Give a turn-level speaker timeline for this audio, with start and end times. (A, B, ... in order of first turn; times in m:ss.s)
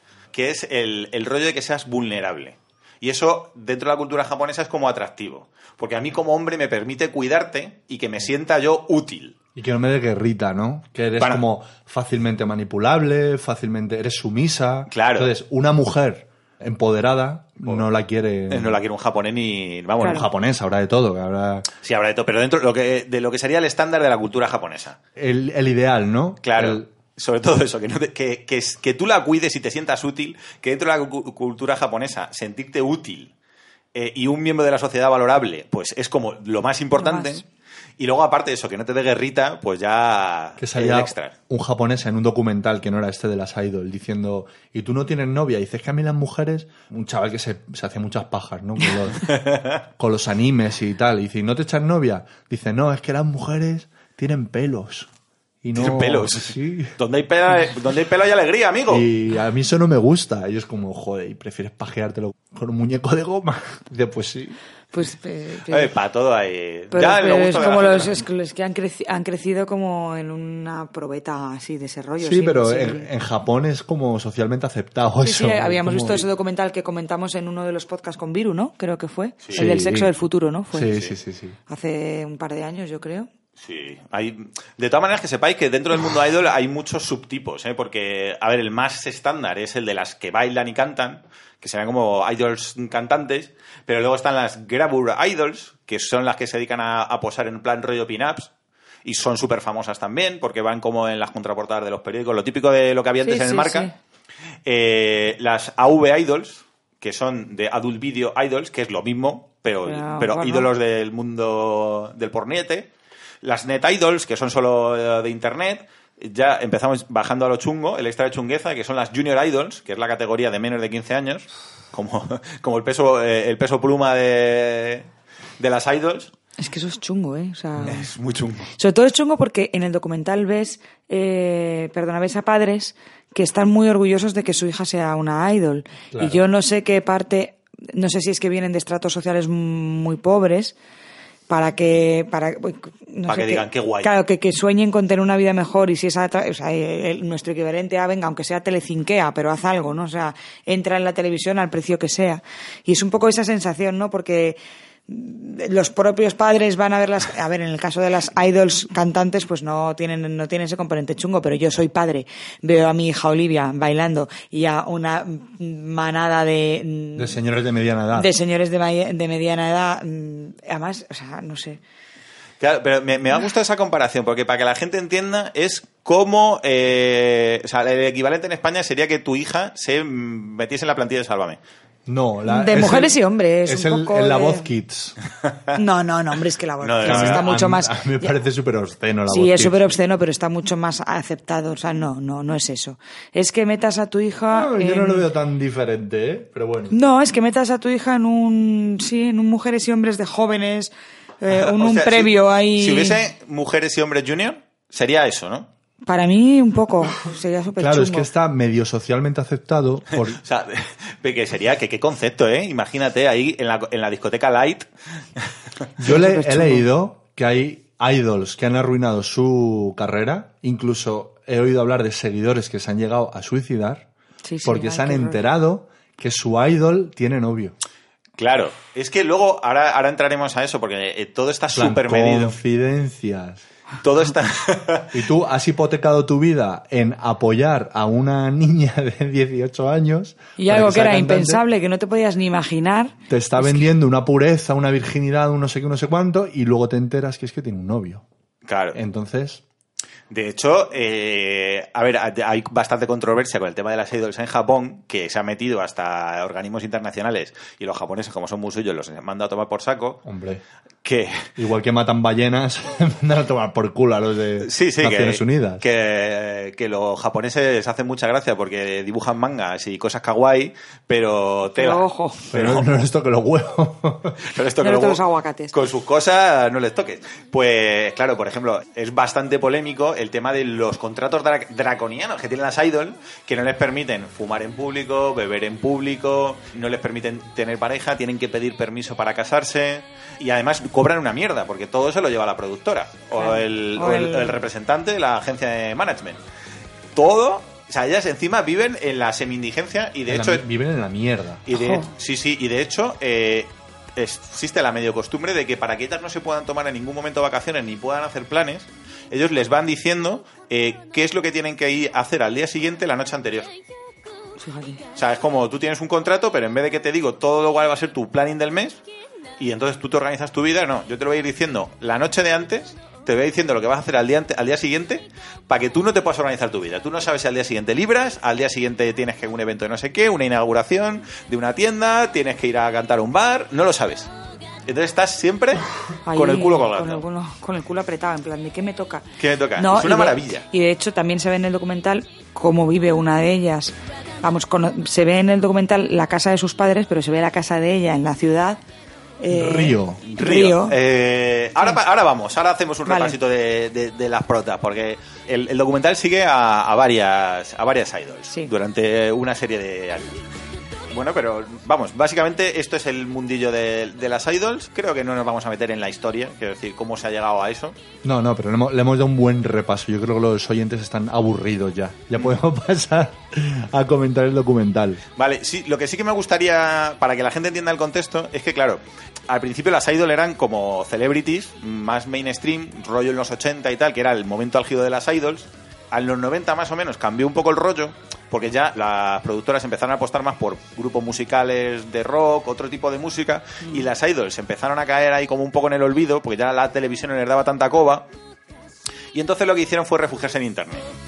0:00.3-0:09.4 A
0:09.6-0:18.8 B
0:14.9-0:15.3 A
0:18.5-0:20.3 A
0:20.0-0:21.7 B
0:21.8-0:25.0 A
0:25.2-0:26.9 B
0:26.4-0:33.3 A
0:34.0-0:37.4 A
0:37.0-0:37.4 C
0:38.0-0:41.3 A
0:40.6-0:49.4 B
0:49.2-0:49.8 A
0:50.0-0:55.1 B
0:55.6-0:57.0 B
0:55.8-0:59.1 A
0:58.9-1:04.6 B
1:04.9-1:05.9 C
1:05.7-1:08.2 A
1:06.9-1:13.1 C
1:12.2-1:16.2 B
1:15.2-1:20.9 C
1:19.5-1:20.1 B
1:20.7-1:21.6 B
1:21.7-1:23.3 C
1:23.6-1:38.5 A
1:39.0-1:43.9 A
1:43.2-1:43.9 C
1:44.6-1:52.9 A
1:49.9-1:50.7 C
1:53.4-2:05.1 A
2:05.6-2:06.3 A
2:06.6-2:08.1 C
2:07.8-2:08.7 A
2:08.8-2:20.8 C
2:16.1-2:16.4 B
2:21.5-2:47.4 C
2:23.3-2:24.1 A
2:47.2-2:48.3 B
2:48.1-2:51.8 C
2:52.6-3:01.6 A
3:02.1-3:05.2 B
3:02.5-3:04.7 C
3:05.4-3:05.8 A
3:05.8-3:08.4 C
3:06.8-3:07.4 A
3:07.0-3:09.8 B
3:09.3-3:15.3 C
3:14.5-3:17.0 B
3:16.9-3:23.2 C
3:21.5-3:25.7 A
3:26.1-3:28.3 C
3:27.8-3:30.4 B
3:30.2-3:34.9 A
3:36.0-3:44.1 B
3:36.1-3:36.8 C
3:44.4-3:45.5 C
3:44.6-3:47.8 B
3:48.4-3:52.6 A
3:51.7-3:53.6 B
3:54.0-3:55.1 A
3:55.1-4:01.6 B
4:00.6-4:03.9 C
4:03.3-4:08.2 B
4:08.6-4:09.0 A
4:08.9-4:09.6 B
4:10.3-4:20.2 A
4:20.2-4:20.6 B
4:21.0-4:21.5 A
4:21.6-4:25.8 B
4:24.6-4:32.9 A
4:31.8-4:32.5 C
4:32.5-4:34.4 B
4:34.4-4:56.4 A
4:34.8-4:35.8 C
4:53.4-4:54.6 C
4:57.2-5:00.6 A
5:00.3-5:02.0 B
5:01.7-5:13.7 A
5:14.6-5:15.0 C
5:15.2-5:19.0 A
5:19.6-5:34.3 A
5:34.9-5:37.2 A
5:36.3-5:39.2 C
5:39.4-5:40.7 A
5:39.8-5:48.8 C
5:49.4-5:51.0 C
5:49.5-5:50.2 B
5:50.3-6:00.4 A
5:53.1-5:53.4 C
6:01.1-6:08.0 A
6:08.2-6:15.2 B
6:15.4-6:38.3 A
6:39.3-6:41.1 A